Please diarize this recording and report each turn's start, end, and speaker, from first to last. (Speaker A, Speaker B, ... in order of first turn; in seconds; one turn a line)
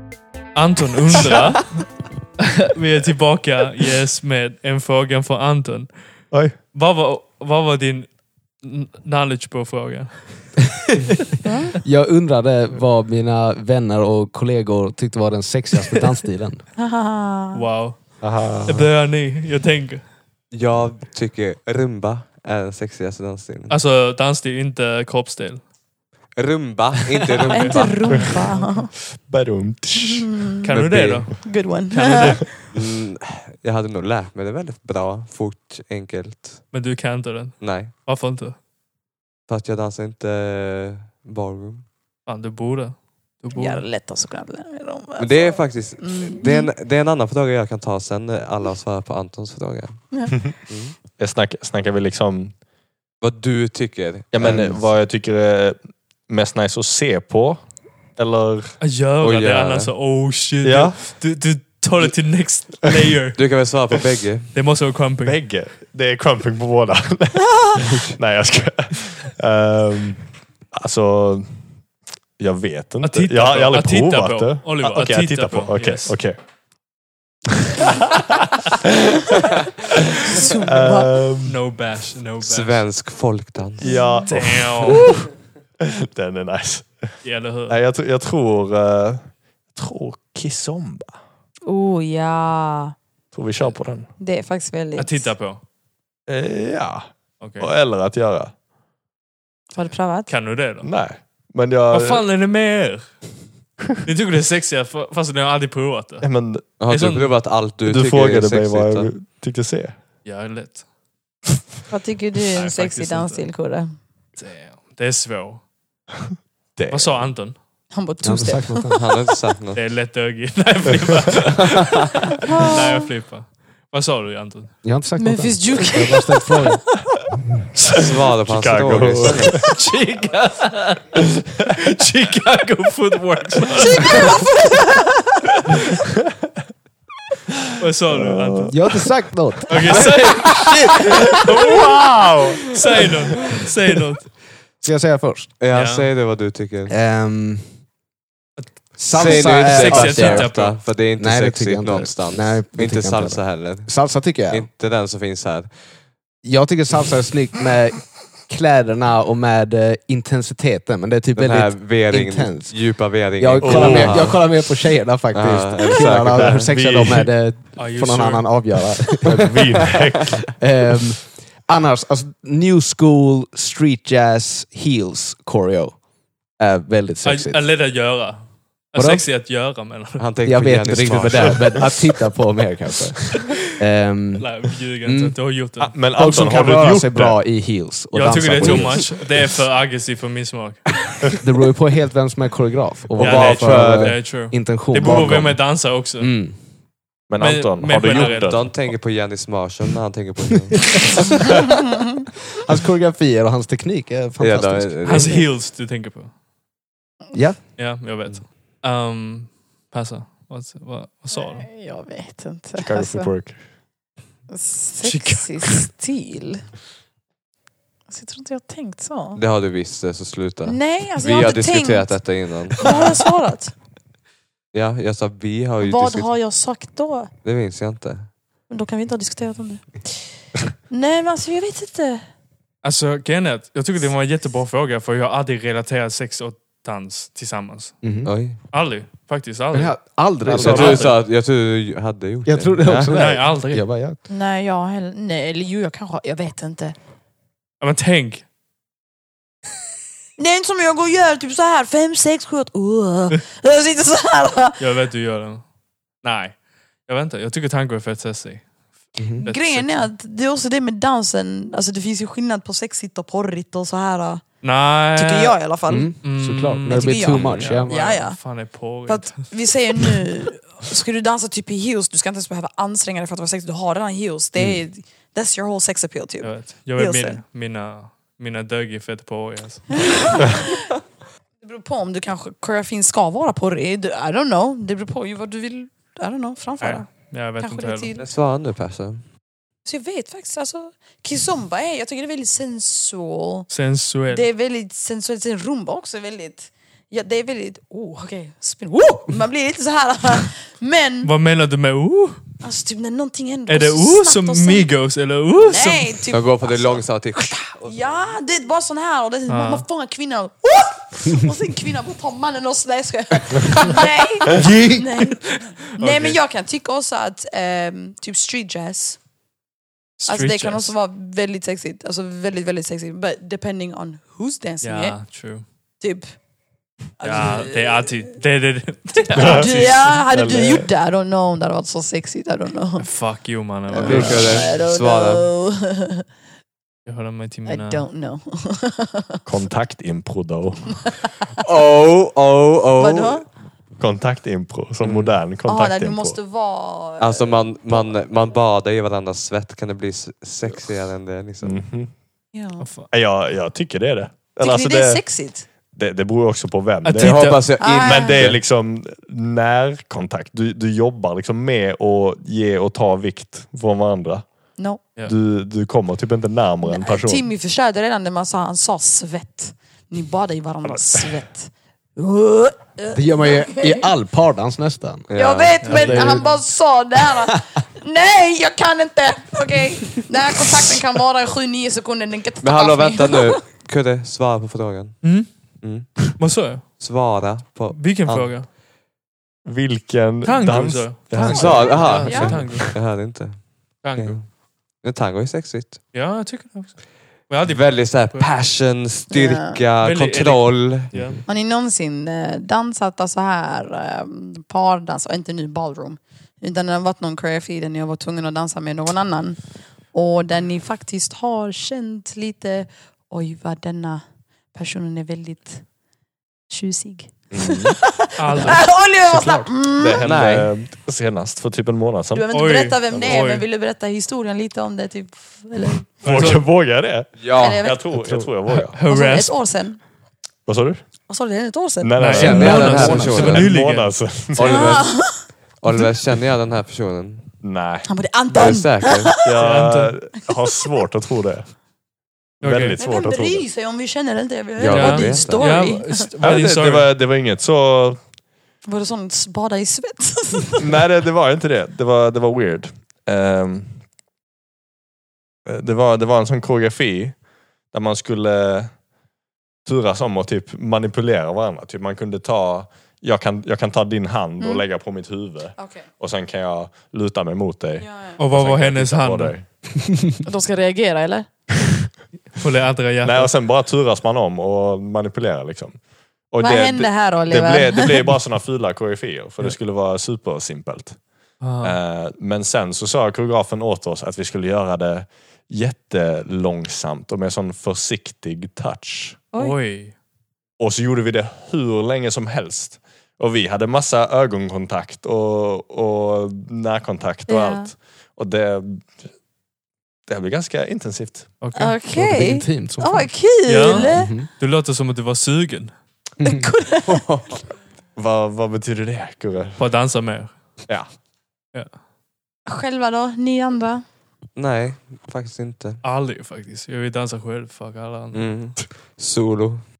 Speaker A: 0.5-1.8
Speaker A: 2.6-5.9
Speaker B: 6.3-6.6
Speaker A: 6.6-10.7
Speaker C: 11.4-11.7
Speaker D: 11.8-16.6
Speaker C: 16.8-17.6
Speaker A: 17.5-20.1
Speaker D: 18.2-18.9
Speaker B: 18.2-18.6
Speaker E: 20.5-23.8
Speaker A: 23.7-25.6
Speaker E: 26.4-28.0
Speaker A: 27.4-28.7
Speaker C: 27.5-28.9
Speaker B: 28.1-31.4
Speaker C: 30.1-30.7
Speaker A: 30.6-32.5
Speaker C: 31.4-32.5
Speaker E: 32.7-36.7
Speaker A: 36.7-38.6
Speaker E: 37.6-37.9
Speaker E: 39.5-41.9
Speaker A: 42.3-43.8
Speaker C: 43.5-46.7
Speaker E: 45.2-51.0
Speaker B: 50.4-52.6
Speaker E: 53.2-54.8
Speaker B: 54.3-58.7
Speaker A: 58.8-63.4
Speaker E: 59.2-59.9
Speaker B: 60.6-61.2
Speaker E: 63.3-64.5
Speaker A: 64.5-65.4
Speaker B: 65.2-71.7
Speaker B: 72.4-76.4
Speaker A: 73.0-76.2
Speaker B: 77.8-78.9
Speaker B: 79.9-81.6
Speaker C: 80.3-81.2
Speaker A: 81.4-82.9
Speaker E: 82.4-84.0
Speaker B: 83.8-85.0
Speaker C: 83.8-84.3
Speaker A: 84.3-85.2
Speaker B: 85.8-91.1
Speaker A: 87.2-87.8
Speaker C: 91.7-93.0
Speaker B: 93.3-94.1
Speaker C: 94.2-95.3
Speaker A: 95.0-95.6
Speaker B: 96.3-98.5
Speaker A: 97.4-97.7
Speaker C: 99.7-100.3
Speaker A: 100.3-100.9
Speaker B: 100.8-102.2
Speaker A: 101.9-103.2
Speaker A: 104.0-107.3
Speaker B: 106.2-106.7
Speaker E: 106.8-109.1
Speaker B: 107.8-110.0
Speaker A: 110.2-110.8
Speaker C: 111.9-113.9
Speaker A: 112.5-113.4
Speaker A: 114.3-115.6
Speaker B: 116.7-117.4
Speaker A: 116.9-117.6
Speaker C: 117.9-119.0
Speaker D: 118.2-119.1
Speaker E: 118.9-119.8
Speaker A: 119.7-124.8
Speaker C: 122.4-123.1
Speaker D: 124.8-126.8
Speaker C: 125.2-126.5
Speaker B: 127.9-129.7
Speaker E: 128.0-129.6
Speaker A: 129.5-134.3
Speaker C: 133.8-135.2
Speaker A: 137.8-138.8
Speaker B: 138.1-138.8
Speaker D: 138.7-140.9
Speaker A: 139.7-140.9
Speaker B: 140.1-143.1
Speaker A: 142.7-144.3
Speaker D: 144.8-145.5
Speaker E: 145.6-146.9
Speaker A: 145.7-146.1
Speaker D: 146.9-147.8
Speaker A: 148.6-150.8
Speaker D: 149.0-154.7
Speaker E: 149.1-156.0
Speaker D: 156.4-170.0
Speaker E: 161.3-164.6
Speaker B: 163.6-164.4
Speaker E: 165.3-166.7
Speaker B: 166.3-167.3
Speaker A: 167.8-168.5
Speaker B: 169.2-170.6
Speaker D: 170.6-176.0
Speaker D: 176.6-177.7
Speaker A: 177.2-180.2
Speaker D: 178.9-179.2
Speaker E: 180.2-181.9
Speaker D: 180.4-185.4
Speaker A: 184.3-185.9
Speaker B: 185.8-187.4
Speaker D: 186.2-189.2
Speaker A: 188.1-191.1
Speaker E: 188.6-188.9
Speaker D: 191.4-196.6
Speaker E: 193.2-194.2
Speaker A: 193.2-196.3
Speaker B: 197.3-198.9
Speaker A: 197.4-198.7
Speaker E: 198.1-201.2
Speaker D: 202.6-205.4
Speaker E: 204.4-205.5
Speaker A: 205.0-206.3
Speaker D: 207.3-207.6
Speaker A: 207.8-211.7
Speaker C: 211.3-213.3
Speaker B: 212.8-213.7
Speaker C: 214.5-216.6
Speaker A: 215.0-215.9
Speaker C: 218.1-219.4
Speaker E: 219.3-222.9
Speaker C: 220.6-222.3
Speaker C: 222.8-223.7
Speaker A: 222.8-223.2
Speaker E: 224.7-226.3
Speaker C: 225.8-227.3
Speaker E: 227.4-228.3
Speaker C: 228.7-230.4
Speaker C: 230.9-232.2
Speaker A: 232.8-238.0
Speaker D: 238.0-238.3
Speaker E: 238.2-238.6
Speaker A: 238.7-241.2
Speaker D: 239.7-241.1
Speaker E: 240.5-243.2
Speaker B: 240.7-241.0
Speaker D: 242.4-244.2
Speaker A: 242.9-243.8
Speaker C: 244.3-246.9
Speaker A: 247.8-248.4
Speaker C: 250.4-254.8
Speaker A: 254.8-255.7
Speaker A: 256.2-260.1
Speaker D: 259.1-259.4
Speaker C: 259.4-264.5
Speaker A: 264.6-265.6
Speaker C: 265.1-266.3
Speaker D: 265.9-267.9
Speaker A: 266.2-269.7
Speaker C: 266.9-277.4
Speaker D: 274.6-274.8
Speaker A: 276.4-280.2
Speaker C: 280.0-280.8
Speaker C: 281.6-288.2
Speaker A: 286.8-288.1
Speaker E: 288.2-289.2
Speaker C: 289.8-293.7
Speaker A: 293.7-294.5
Speaker C: 294.3-301.3
Speaker A: 301.2-302.4
Speaker C: 302.6-304.9
Speaker A: 303.7-306.1
Speaker C: 305.6-319.2
Speaker E: 306.3-308.3
Speaker A: 309.5-309.8
Speaker D: 314.5-315.1
Speaker A: 316.0-316.4
Speaker A: 320.2-320.9
Speaker C: 320.3-325.2
Speaker A: 324.8-325.6
Speaker C: 326.0-326.3
Speaker C: 327.2-328.1
Speaker A: 327.2-330.1
Speaker B: 329.3-330.9
Speaker C: 329.4-333.1
Speaker A: 333.0-334.6
Speaker C: 333.9-336.2
Speaker E: 334.0-335.5
Speaker A: 337.1-338.1
Speaker C: 337.6-339.4
Speaker B: 339.4-341.0
Speaker E: 341.6-343.4
Speaker C: 343.0-343.4
Speaker B: 344.0-346.4
Speaker E: 345.0-345.4
Speaker C: 345.6-348.2
Speaker E: 347.2-351.8
Speaker B: 351.6-352.2
Speaker C: 352.5-352.9
Speaker A: 352.8-353.1
Speaker B: 353.1-355.2
Speaker C: 354.6-355.7
Speaker B: 355.9-364.7
Speaker A: 357.0-357.7
Speaker E: 357.1-358.6
Speaker C: 357.8-358.5
Speaker C: 364.8-365.1
Speaker B: 365.2-367.4
Speaker C: 366.8-374.1
Speaker D: 373.1-375.3
Speaker E: 375.3-376.5
Speaker C: 375.4-383.6
Speaker A: 375.8-376.6
Speaker E: 382.6-388.7
Speaker A: 385.2-385.8
Speaker A: 386.4-387.0
Speaker A: 387.9-388.7
Speaker B: 389.6-392.9
Speaker A: 390.4-393.0
Speaker E: 391.3-396.1
Speaker C: 392.2-392.6
Speaker A: 394.0-394.4
Speaker A: 396.1-398.5
Speaker E: 397.6-401.1
Speaker C: 399.3-399.8
Speaker A: 400.0-401.4
Speaker C: 401.4-415.9
Speaker C: 416.7-420.3
Speaker B: 417.5-418.0
Speaker A: 418.4-418.9
Speaker D: 419.2-419.7
Speaker B: 420.0-422.5
Speaker E: 420.2-420.7
Speaker C: 422.3-426.2
Speaker A: 422.5-423.6
Speaker B: 426.2-429.0
Speaker A: 426.2-426.7
Speaker E: 427.4-427.8
Speaker C: 427.5-428.1
Speaker D: 428.1-428.8
Speaker A: 428.9-429.6
Speaker C: 429.0-430.0
Speaker B: 430.6-431.0
Speaker C: 431.3-432.2
Speaker B: 432.0-434.9
Speaker A: 432.2-434.1
Speaker D: 432.3-433.6
Speaker E: 432.3-433.7
Speaker E: 434.6-437.5
Speaker C: 434.6-435.5
Speaker B: 437.6-438.1
Speaker C: 438.1-439.7
Speaker A: 438.5-438.8
Speaker E: 438.5-439.4
Speaker B: 439.4-441.7
Speaker A: 439.6-440.1
Speaker A: 442.6-443.0
Speaker B: 442.6-443.6
Speaker C: 443.0-446.3
Speaker E: 444.8-445.9
Speaker A: 444.9-447.1
Speaker B: 446.4-448.2
Speaker C: 448.8-451.0
Speaker B: 450.8-454.1
Speaker B: 455.6-459.0
Speaker B: 459.8-469.8
Speaker C: 464.6-464.9
Speaker C: 465.8-466.1
Speaker C: 468.0-468.4
Speaker A: 468.4-469.6
Speaker C: 470.4-471.5
Speaker A: 472.5-473.5
Speaker B: 473.2-481.2
Speaker C: 476.6-478.3
Speaker A: 481.6-482.0
Speaker B: 481.8-489.4
Speaker C: 489.5-489.8
Speaker A: 489.6-490.1
Speaker B: 490.8-499.2
Speaker C: 497.5-497.9
Speaker B: 500.3-501.6
Speaker A: 501.6-501.9
Speaker C: 501.7-504.3
Speaker D: 502.1-503.3
Speaker A: 503.6-505.9
Speaker D: 503.8-504.5
Speaker D: 506.4-507.4
Speaker C: 506.4-507.3
Speaker B: 508.1-509.8
Speaker A: 509.8-510.6
Speaker C: 512.6-514.0
Speaker E: 514.5-516.0
Speaker A: 516.0-518.6
Speaker E: 518.3-519.8